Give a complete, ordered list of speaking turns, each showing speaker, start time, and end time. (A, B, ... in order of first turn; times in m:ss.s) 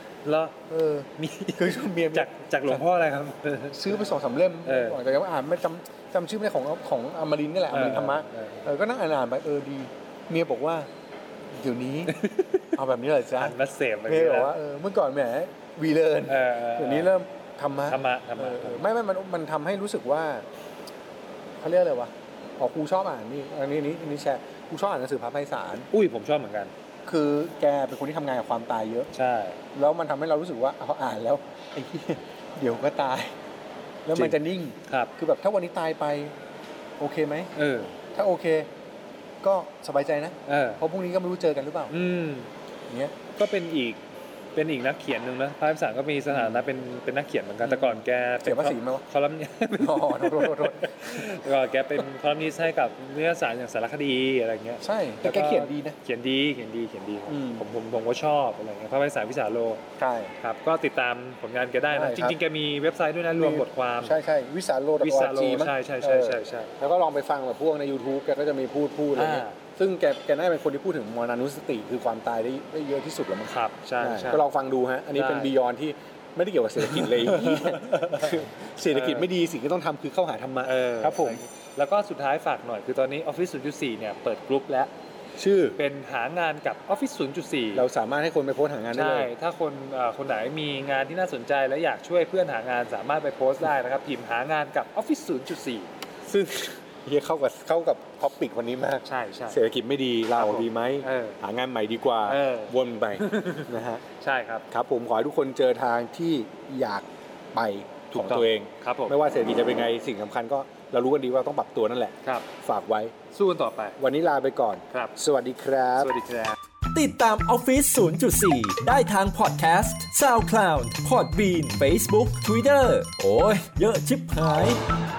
0:00.2-0:00.6 A
0:00.7-0:02.8 B
0:01.2-0:03.9 A
0:03.7-0:10.9 B
0:04.6-0:05.0 A
0:07.7-0:08.6 A
0:11.5-0:12.2 B
0:12.1-0:12.7 A
0:12.8-0:13.6 B
0:13.4-0:14.5 A
0:14.1-0:20.5 B
0:16.3-0:17.1 A
0:17.9-0:18.8 A
0:21.6-0:25.9 B
0:25.9-0:26.7 A
0:27.1-0:29.1 B
0:29.1-0:29.6 A
0:29.7-0:33.3 B
0:34.1-0:36.4 B
0:34.1-0:35.1 A
0:37.0-0:37.5 B
0:37.6-0:38.0 A
0:38.1-0:38.7 B
0:39.4-0:41.9 B
0:40.5-0:40.8 A
0:41.9-0:42.5 A
0:42.9-0:43.2 B
0:43.4-0:44.0 A
0:44.6-0:59.8 A
0:46.3-0:46.6 B
0:47.6-0:49.0 B
0:49.7-0:51.4 B
0:54.8-0:56.0 B
0:57.3-0:57.7 B
1:00.0-1:00.3 B
1:00.4-1:04.2 A
1:01.9-1:02.4 B
1:03.4-1:21.4 B
1:05.0-1:06.7 A
1:09.2-1:09.6 A
1:13.5-1:14.4 A
1:15.2-1:15.5 A
1:16.8-1:19.3 A
1:20.6-1:24.9 A
1:25.4-1:25.8 B
1:25.8-1:27.9 A
1:27.7-1:29.3 B
1:28.9-1:35.9 A
1:36.3-1:44.0 B
1:39.0-1:39.6 A
1:40.4-1:41.4 A
1:42.3-1:44.7 A
1:44.7-1:53.2 B
1:48.1-1:49.2 A
1:52.2-1:52.5 A
1:53.3-1:54.0 A
1:54.0-1:56.1 B
1:54.9-1:55.2 A
1:56.0-1:56.6 A
1:56.9-2:04.8 C